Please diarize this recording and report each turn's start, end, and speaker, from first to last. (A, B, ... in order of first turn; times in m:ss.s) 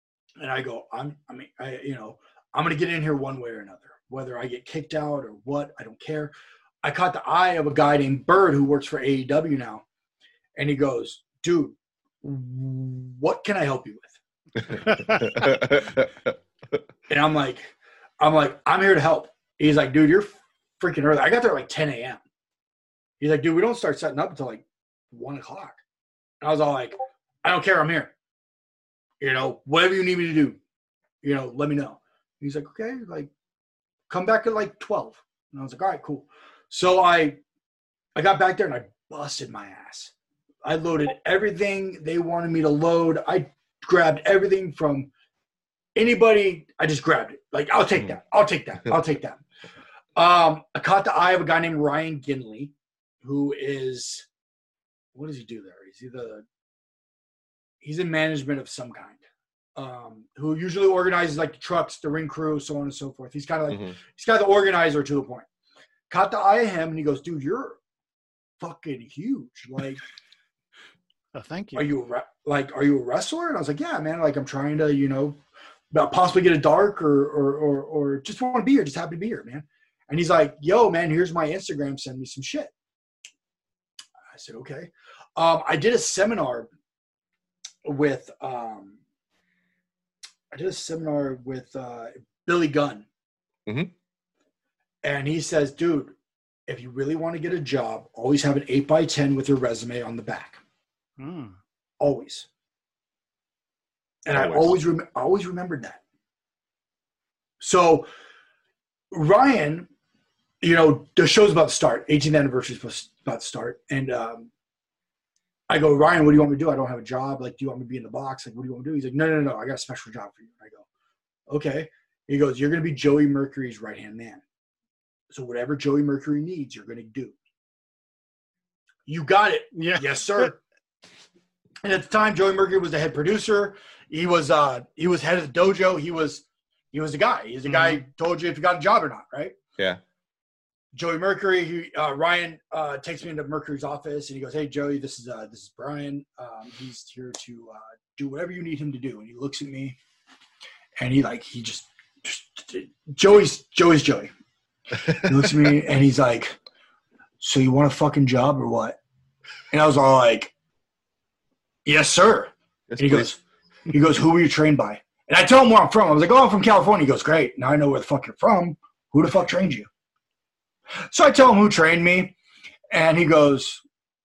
0:00.4-0:09.8 A
0:10.6-0:14.2 A
0:14.8-0:16.3 B
0:14.8-0:15.5 C
0:17.1-0:22.2 A
0:23.2-0:25.8 A
0:26.4-0:28.1 A
0:29.2-0:30.6 A
0:31.2-0:33.3 A
0:34.1-0:37.4 A
0:38.2-0:40.1 A
0:40.6-0:45.1 A
0:46.0-0:49.4 A
0:50.2-0:54.3 A
0:55.2-0:56.4 A
0:57.8-0:59.2 A
0:59.8-1:05.5 A
1:06.1-1:07.8 A
1:08.6-1:10.0 A
1:11.3-1:11.9 C
1:11.8-1:15.4 A
1:15.9-1:22.7 A
1:24.3-1:26.7 A
1:27.8-1:29.0 A
1:30.5-1:33.1 A
1:33.7-1:33.9 B
1:35.0-1:36.2 A
1:36.7-1:40.6 A
1:41.2-1:41.6 C
1:42.0-1:42.5 A
1:44.2-1:46.0 A
1:44.4-1:44.8 B
1:47.6-1:48.1 A
1:49.1-1:49.9 A
1:50.6-1:54.5 A
1:55.7-2:00.8 A
2:01.5-2:04.4 A
2:05.3-2:07.4 A
2:09.1-2:10.6 A
2:09.8-2:10.5 C
2:11.8-2:19.6 A
2:17.7-2:18.0 C
2:20.9-2:30.0 A
2:31.0-2:34.3 A
2:35.0-2:36.6 A
2:37.4-2:39.0 A
2:39.7-2:40.5 A
2:41.8-2:43.4 A
2:42.9-2:43.3 B
2:43.9-2:49.9 A
2:51.1-2:52.4 A
2:52.9-2:53.8 A